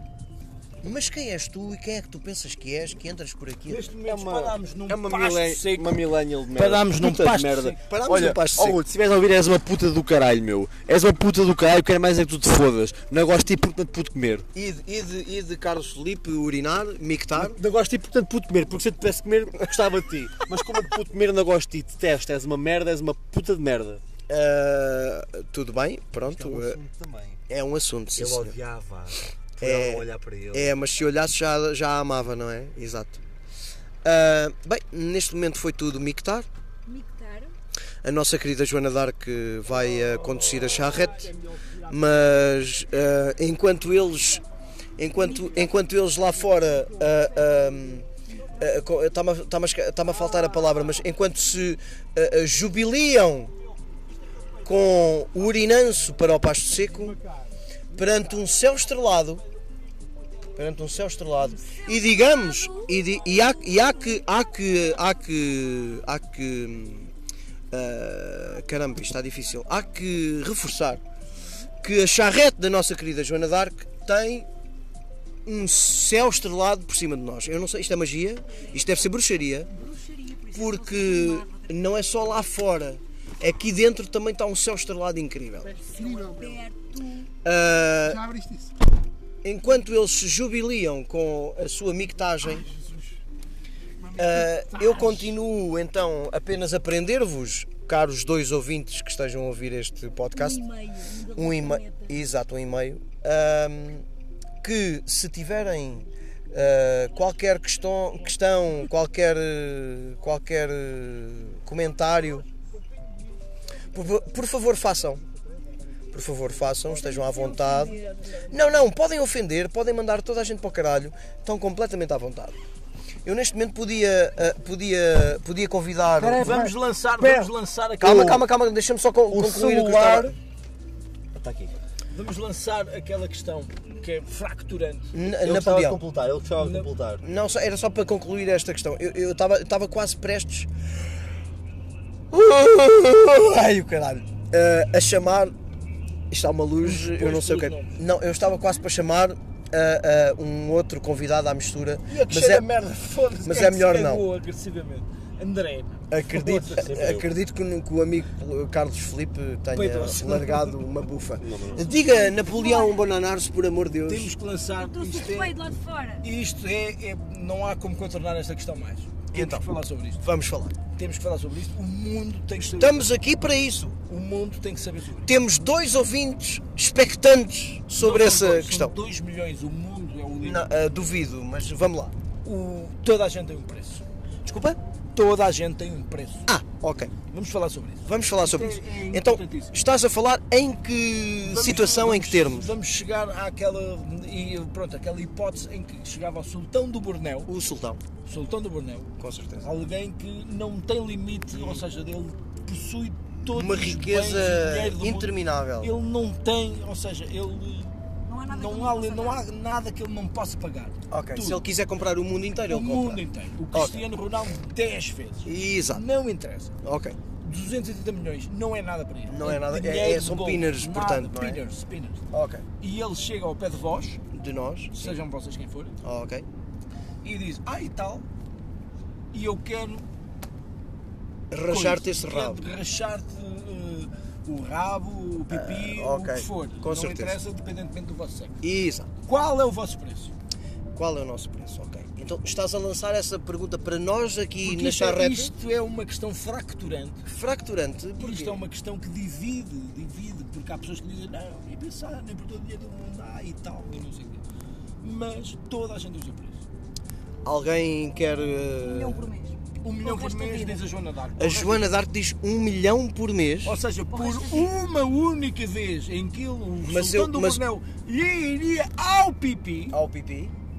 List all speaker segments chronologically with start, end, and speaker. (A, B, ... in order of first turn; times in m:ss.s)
0:00.8-0:03.9 A
0:03.7-0:06.0 B
0:04.1-0:14.5 C
0:06.6-0:07.8 B
0:06.7-0:08.8 A
0:14.5-0:17.6 A
0:17.3-0:24.0 C
0:24.3-0:26.8 A
0:26.2-0:27.4 C
0:27.5-0:28.6 A
0:28.2-0:30.7 C
0:29.6-0:33.2 A
0:34.0-0:36.5 A
0:36.8-0:37.5 D
0:38.0-0:41.3 A
0:40.1-0:41.0 C
0:41.6-0:41.9 B
0:41.9-0:44.4 A
0:45.0-0:48.1 A
0:45.1-0:45.8 D
0:48.6-0:53.5 A
0:54.6-0:57.2 A
0:57.9-0:59.4 A
0:58.0-0:58.4 B
1:00.6-1:07.1 A
1:01.4-1:04.3 D
1:07.7-1:11.0 A
1:11.4-1:11.7 D
1:11.8-1:14.5 A
1:15.4-1:19.7 A
1:19.7-1:22.3 D
1:20.5-1:25.8 A
1:25.6-1:26.6 E
1:25.8-1:27.3 D
1:27.4-1:28.2 A
1:28.0-1:28.7 E
1:29.4-1:32.6 A
1:32.5-1:33.2 E
1:34.0-1:35.3 E
1:34.2-1:40.6 A
1:40.3-1:42.2 D
1:41.3-1:44.0 A
1:44.6-1:52.5 A
1:53.9-1:55.2 A
1:56.1-2:02.6 A
1:56.9-1:58.5 D
2:03.2-2:06.6 A
2:06.2-2:08.4 B
2:06.3-2:07.5 C
2:08.0-2:10.4 A
2:09.3-2:10.4 C
2:11.3-2:11.7 C
2:12.1-2:15.2 B
2:15.1-2:16.0 A
2:15.3-2:17.2 C
2:16.6-2:16.9 B
2:17.2-2:20.7 A
2:22.3-2:25.5 A
2:26.3-2:32.6 A
2:26.8-2:28.0 B
2:32.1-2:37.3 B
2:33.4-2:34.2 A
2:36.1-2:44.3 A
2:39.7-2:40.8 B
2:41.4-2:41.8 C
2:41.7-2:43.0 D
2:44.0-2:45.6 B
2:44.7-2:46.2 D
2:46.2-2:50.2 B
2:49.3-2:49.7 A
2:50.2-2:50.7 A
2:50.9-2:53.0 B
2:52.8-2:54.0 A
2:54.1-2:55.3 B
2:55.2-2:58.9 A
2:58.0-3:00.7 B
3:00.4-3:02.1 A
3:02.4-3:04.0 B
3:04.4-3:04.8 A
3:05.1-3:06.5 B
3:06.5-3:07.1 A
3:07.3-3:09.8 B
3:08.0-3:12.7 A
3:11.4-3:17.5 B
3:17.5-3:18.0 A
3:18.2-3:28.0 B
3:19.2-3:19.7 A
3:21.5-3:21.8 A
3:23.5-3:25.9 A
3:28.2-3:29.4 D
3:28.5-3:31.6 B
3:31.1-3:33.2 A
3:32.7-3:36.7 B
3:33.7-3:34.0 A
3:35.4-3:36.0 A
3:36.8-3:37.2 A
3:37.4-3:42.2 B
3:39.3-3:41.6 A
3:42.3-3:42.6 A
3:42.8-3:44.2 B
3:44.3-3:45.2 A
3:44.9-3:46.0 B
3:46.0-3:46.4 A
3:47.2-3:48.2 B
3:49.3-3:50.0 B
3:51.5-3:52.8 A
3:51.7-3:58.6 B
3:55.5-3:57.4 A
3:58.6-3:59.1 A
3:59.2-4:00.3 B
4:00.9-4:05.5 A
4:04.6-4:07.2 B
4:07.2-4:08.6 A
4:08.2-4:14.4 B
4:15.0-4:16.6 B
4:17.4-4:19.2 A
4:18.8-4:20.8 D
4:19.8-4:21.9 B
4:21.4-4:23.8 A
4:23.6-4:30.0 B
4:24.1-4:24.7 D
4:26.8-4:27.6 A
4:29.9-4:30.5 A